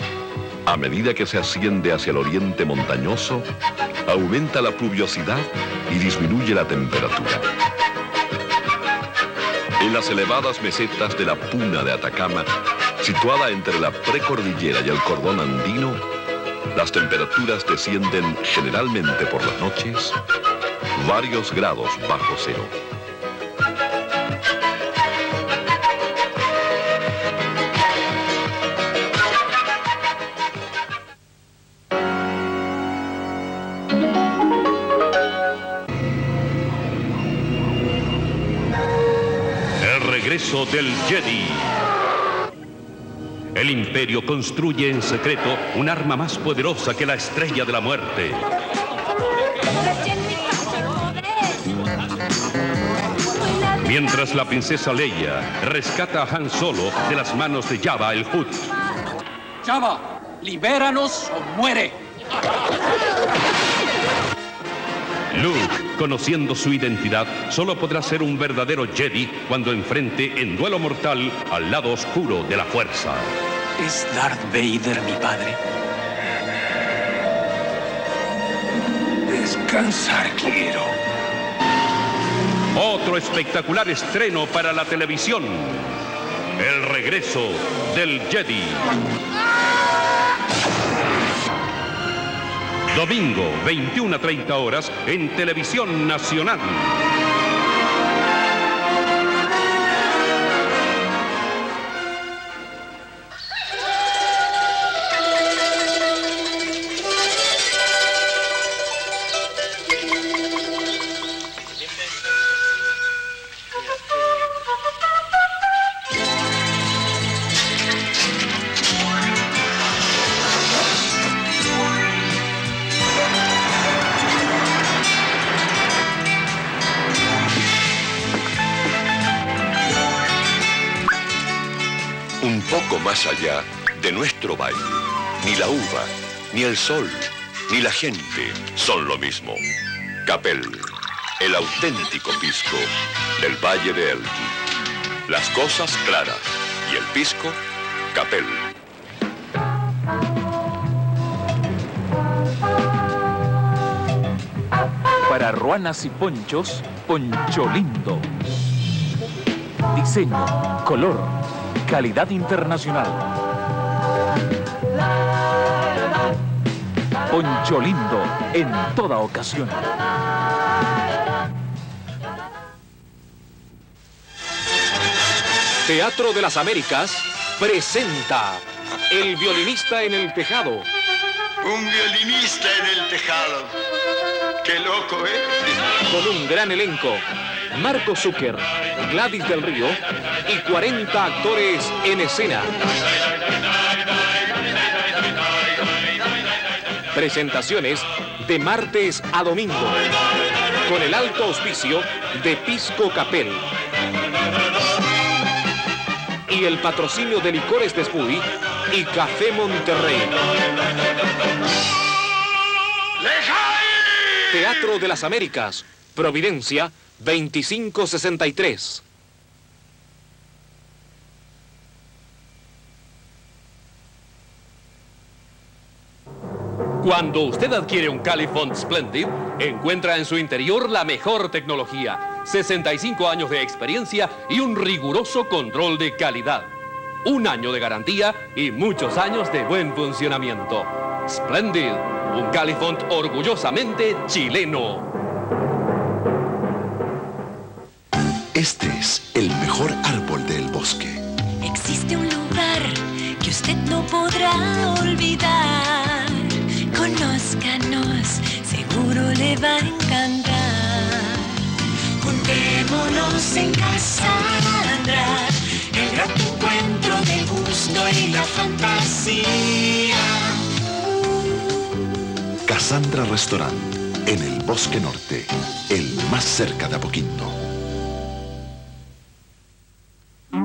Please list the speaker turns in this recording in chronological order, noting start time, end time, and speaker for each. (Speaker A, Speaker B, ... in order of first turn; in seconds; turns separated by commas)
Speaker A: 0.7-3.5, Speaker A: 4.1-7.5, Speaker A: 9.8-12.5, Speaker A: 13.0-16.0, Speaker A: 16.7-20.1, Speaker A: 20.9-22.7, Speaker B: 39.8-41.8, Speaker B: 43.5-48.5, Speaker B: 53.8-58.8, Speaker C: 59.6-62.0, Speaker B: 65.3-73.3, Speaker C: 73.8-75.6, Speaker C: 79.3-81.0, Speaker B: 82.7-85.9, Speaker B: 86.6-88.9, Speaker B: 92.9-97.0, Speaker A: 132.4-134.9, Speaker A: 135.4-139.6, Speaker A: 140.3-144.6, Speaker A: 145.3-147.6, Speaker A: 148.1-148.6, Speaker D: 155.3-158.3, Speaker D: 159.9-163.3, Speaker D: 167.3-169.9, Speaker E: 175.9-180.9, Speaker F: 181.6-183.7, Speaker F: 184.6-185.7, Speaker E: 186.1-192.7, Speaker E: 197.1-200.0, Speaker E: 200.8-203.7, Speaker E: 206.5-210.3, Speaker E: 214.5-219.0, Speaker G: 227.0-236.7, Speaker G: 237.2-245.1, Speaker H: 248.5-251.2, Speaker I: 251.6-261.5, Speaker I: 262.2-270.2, Speaker H: 272.7-277.6